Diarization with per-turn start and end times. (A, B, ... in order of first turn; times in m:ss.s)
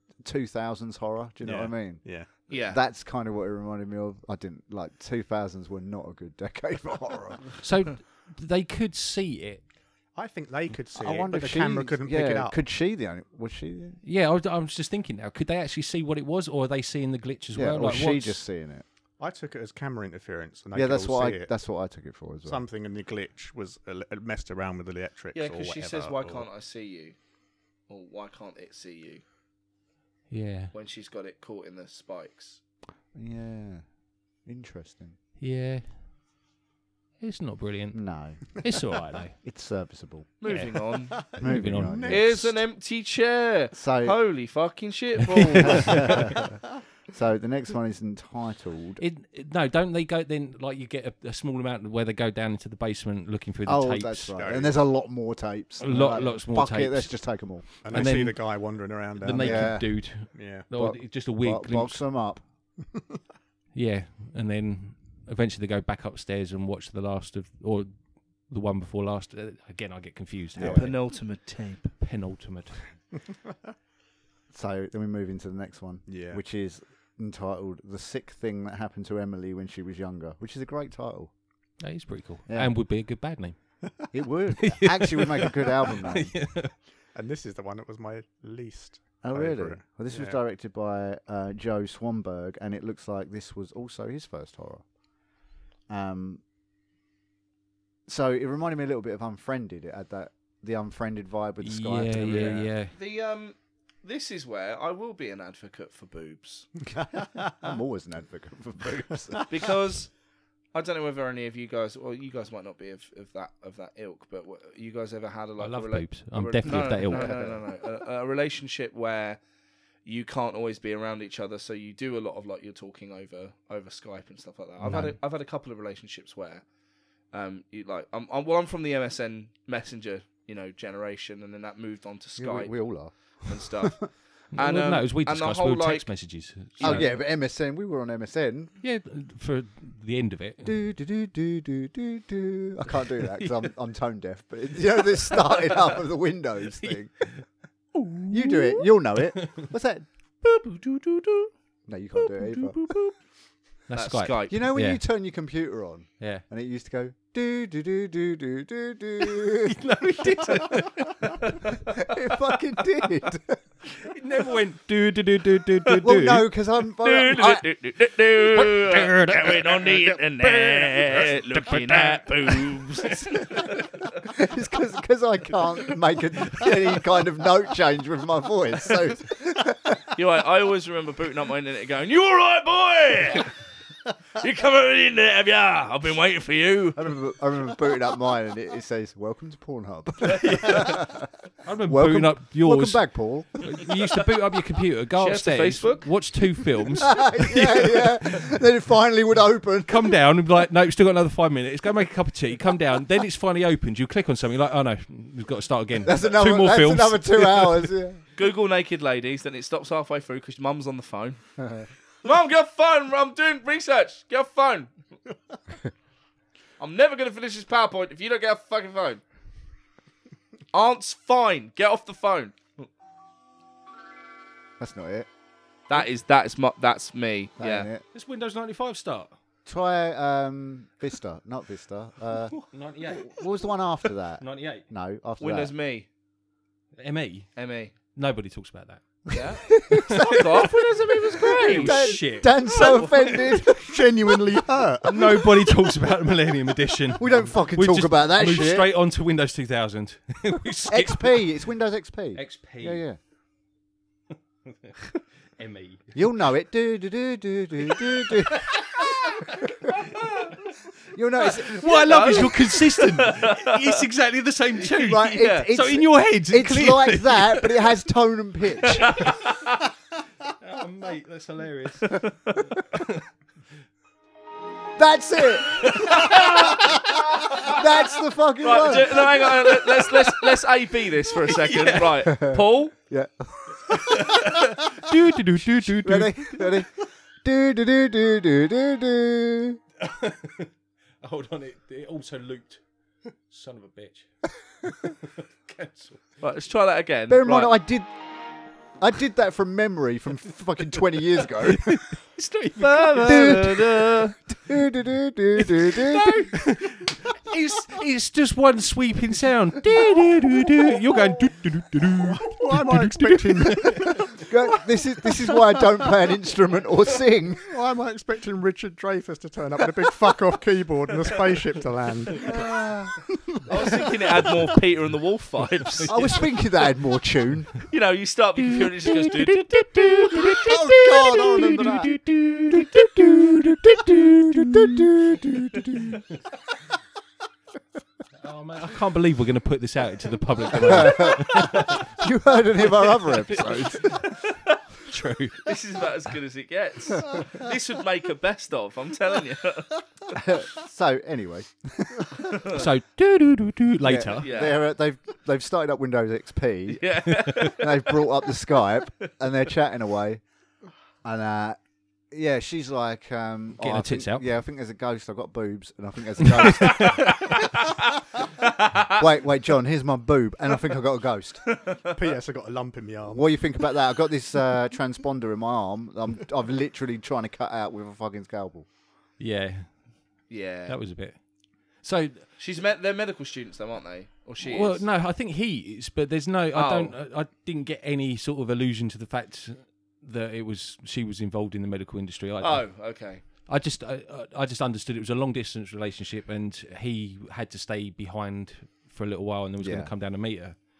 0:00.2-0:07.5 A
0:01.4-0:02.3 B
0:02.5-0:02.8 C
0:07.6-0:09.6 D
0:10.1-0:12.6 B
0:10.9-0:14.0 A
0:14.0-0:18.4 D
0:17.5-0:18.8 A
0:19.2-0:21.5 B
0:20.7-0:22.6 A
0:22.4-0:26.4 B
0:25.3-0:27.2 C
0:27.9-0:29.2 C
0:30.3-0:30.7 D
0:30.7-0:32.6 C
0:33.1-0:33.8 A
0:34.4-0:35.2 A
0:35.4-0:36.0 D
0:37.2-0:39.4 D
0:37.9-0:38.9 A
0:39.4-0:40.3 A
0:40.4-0:41.3 C
0:40.4-0:42.5 D
0:41.4-0:42.6 A
0:42.1-0:46.3 C
0:43.7-0:44.2 A
0:45.3-0:46.2 D
0:45.6-0:46.6 A
0:47.1-0:49.0 A
0:49.0-0:54.3 D
0:53.6-0:57.7 A
0:54.3-0:54.8 B
0:55.8-1:02.0 D
0:57.8-1:00.7 B
0:59.3-1:02.4 A
1:03.7-1:11.3 D
1:10.6-1:10.9 A
1:10.6-1:11.9 C
1:11.9-1:13.0 D
1:14.5-1:21.3 A
1:16.1-1:16.4 B
1:21.8-1:23.6 D
1:24.1-1:26.3 A
1:24.6-1:26.7 D
1:27.1-1:30.4 B
1:29.2-1:34.8 A
1:35.9-1:36.4 A
1:38.1-1:42.7 A
1:41.6-1:42.9 D
1:42.3-1:46.7 C
1:47.0-1:47.5 B
1:47.5-1:49.4 A
1:49.5-1:50.1 C
1:50.7-1:59.4 C
1:55.6-1:57.5 D
1:56.6-1:57.6 A
2:00.0-2:06.6 C
2:04.8-2:05.2 D
2:07.3-2:16.1 C
2:12.4-2:13.8 A
2:14.5-2:17.1 D
2:16.8-2:17.0 C
2:16.8-2:18.7 A
2:18.8-2:20.7 D
2:20.6-2:27.3 A
2:25.3-2:25.6 D
2:26.8-2:27.4 D
2:27.9-2:29.7 D
2:28.3-2:30.1 A
2:30.4-2:31.5 D
2:31.9-2:32.9 A
2:32.2-2:33.1 D
2:33.9-2:35.0 D
2:33.9-2:34.6 C
2:34.5-2:40.8 A
2:39.3-2:41.5 D
2:41.8-2:43.6 A
2:44.0-2:46.4 D
2:46.0-2:47.7 A
2:47.0-2:53.8 C
2:48.5-2:53.8 D
2:54.2-3:00.0 A
3:00.1-3:03.5 C
3:04.4-3:07.1 C
3:06.9-3:11.3 A
3:10.4-3:11.0 D
3:11.6-3:18.5 D
3:11.9-3:13.9 A
3:15.2-3:16.1 C
3:17.0-3:20.2 A
3:19.8-3:27.9 D
3:26.0-3:28.2 A
3:28.4-3:31.4 C
3:31.6-3:31.8 A
3:32.2-3:34.9 C
3:36.8-3:39.2 C
3:40.7-3:42.9 C
3:44.8-3:45.3 A
3:45.9-3:47.9 C
3:47.6-3:48.0 A
3:48.1-3:49.3 D
3:49.6-3:52.6 A
3:52.5-3:53.5 D
3:53.1-3:55.7 A
3:54.4-3:54.8 D
3:55.4-3:56.1 C
3:57.0-3:57.5 D
3:57.6-3:57.9 C
3:58.1-3:59.3 D
3:59.3-4:02.2 C
3:59.7-4:00.7 A
4:00.1-4:03.0 D
4:01.6-4:05.3 A
4:02.7-4:03.2 C
4:03.6-4:05.7 B
4:05.0-4:11.5 D
4:07.2-4:08.9 A
4:10.9-4:13.2 A
4:12.3-4:13.0 D
4:14.7-4:15.0 D
4:15.6-4:16.1 D
4:16.1-4:20.0 A
4:18.5-4:19.7 D
4:21.1-4:22.6 A
4:21.4-4:27.9 D
4:21.9-4:24.0 C
4:24.9-4:29.3 A
4:25.2-4:25.7 C
4:29.0-4:29.7 C
4:30.6-4:33.2 D
4:32.1-4:32.6 C
4:35.0-4:39.4 A
4:35.8-4:37.8 C
4:38.6-4:42.9 C
4:41.5-4:42.2 D
4:42.2-4:44.5 A
4:44.0-4:44.8 C
4:44.0-4:46.7 D
4:45.7-4:49.8 A
4:50.0-4:52.8 D
4:53.5-4:56.4 D
4:56.4-4:57.7 C
4:57.3-4:58.1 A
4:59.0-5:02.1 A
5:01.6-5:04.1 D
5:02.8-5:04.4 C
5:03.2-5:06.7 A
5:05.6-5:14.2 D
5:12.2-5:14.5 B
5:14.4-5:17.7 A
5:15.2-5:16.1 B
5:17.6-5:22.8 B
5:22.4-5:23.2 A
5:23.6-5:24.5 B
5:23.7-5:26.4 C
5:26.1-5:27.8 A
5:27.9-5:30.6 C
5:28.7-5:35.1 D
5:30.3-5:36.2 A
5:38.4-5:42.1 D
5:40.7-5:44.2 A
5:43.2-5:44.3 D
5:44.3-5:44.7 C
5:45.0-5:45.7 D
5:45.6-5:50.0 C
5:50.3-5:52.5 A
5:52.5-5:52.8 C
5:52.7-5:54.5 D
5:54.0-6:00.4 A
5:54.4-5:54.8 C
5:56.9-5:58.1 C
6:01.2-6:01.8 A
6:02.3-6:07.7 A
6:03.8-6:04.4 D
6:06.4-6:07.3 D
6:08.6-6:09.1 C
6:09.1-6:11.6 A
6:12.1-6:13.5 B
6:13.3-6:18.8 A
6:19.4-6:20.0 D
6:20.5-6:20.9 C
6:20.9-6:21.4 D
6:21.9-6:22.5 D
6:22.6-6:25.0 C
6:24.6-6:40.8 D
6:26.7-6:27.2 C
6:32.6-6:33.4 C
6:39.8-6:40.1 A